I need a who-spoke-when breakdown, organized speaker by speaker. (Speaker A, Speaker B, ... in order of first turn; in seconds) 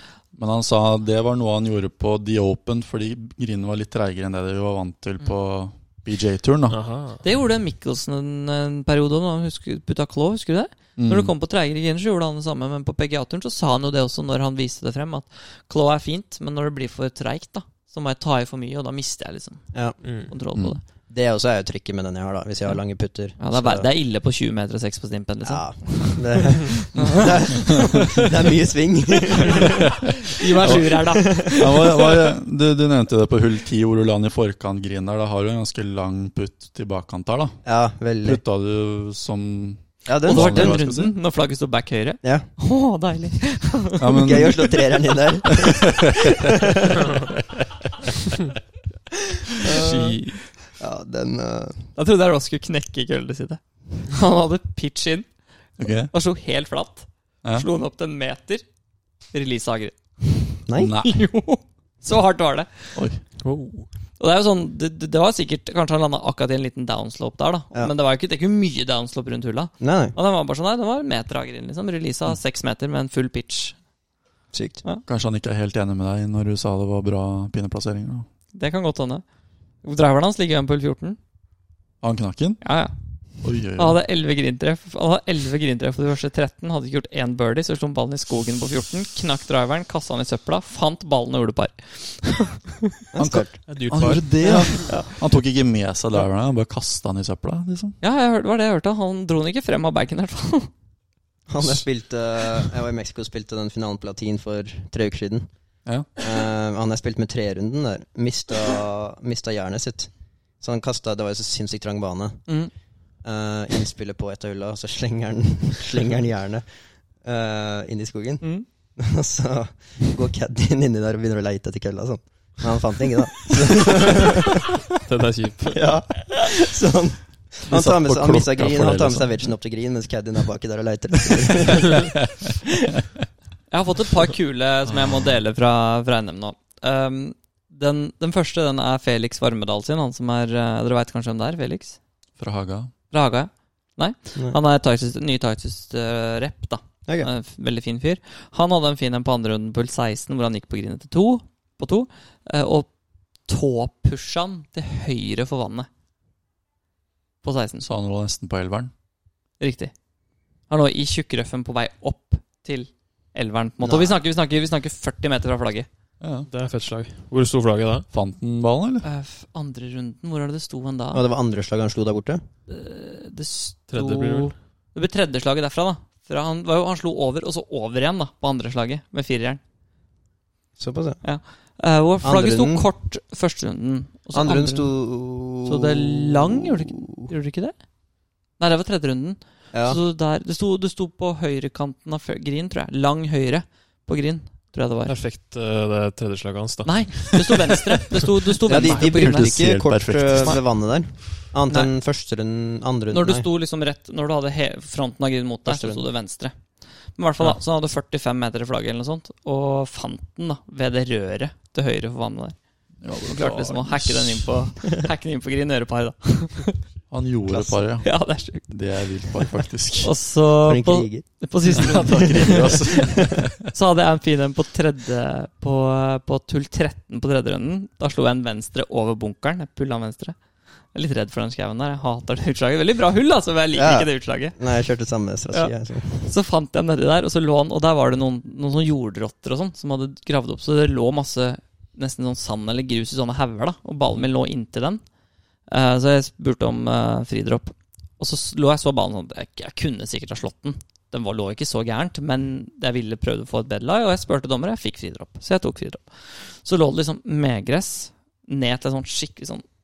Speaker A: 0.3-6.8, 11.0-11.3, 30.6-37.6, 38.2-41.1, 44.0-44.9, 45.6-46.3, 55.8-56.1, 60.8-61.2, 62.9-63.2, 75.0-78.3, 82.0-82.6, 83.4-84.0, 93.2-98.0, 127.7-129.5, 142.4-142.9, 157.8-158.9, 166.2-166.5, 168.1-169.1, 198.8-200.6, 213.0-214.5, 217.1-220.1, 221.7-223.5
Speaker B: 6.7-7.2, 20.0-20.3, 49.7-50.4, 63.4-63.9, 93.7-94.9, 124.9-125.8, 166.5-168.1, 173.9-174.5, 195.1-197.8
Speaker C: 7.2-20.8, 23.4-27.3, 30.2-32.2, 40.2-44.3, 49.8-50.1, 51.9-55.3, 56.1-58.6, 59.3-63.1, 64.2-73.8, 78.5-79.2, 79.8-81.2, 82.6-82.9, 83.7-92.7, 94.4-95.1, 98.0-100.7, 112.5-112.7, 133.7-142.0, 143.1-152.9, 153.4-155.9, 157.4-157.9, 159.6-159.9, 160.7-165.9, 169.0-171.2, 172.7-179.6, 181.2-184.9, 185.6-187.8, 188.6-195.2, 196.8-199.6, 203.1-212.6, 213.2-216.8, 218.0-223.0, 223.7-230.3, 230.9-234.6, 235.5-245.0, 245.7-259.6
Speaker D: 19.7-20.0, 21.1-23.9, 25.4-31.1, 37.6-38.4, 40.0-40.8, 42.2-42.5, 44.1-47.2, 49.5-51.9, 60.6-60.9, 69.8-70.2, 74.5-74.8, 93.1-93.6, 101.5-105.5, 106.2-112.5, 113.2-116.7, 117.2-124.5, 125.7-132.2, 163.8-164.2, 171.1-172.4, 180.8-181.2, 182.2-182.9, 184.3-187.3, 189.7-190.0, 198.6-203.5, 205.7-206.0, 217.5-217.8, 220.7-221.3, 222.1-223.2, 233.7-236.3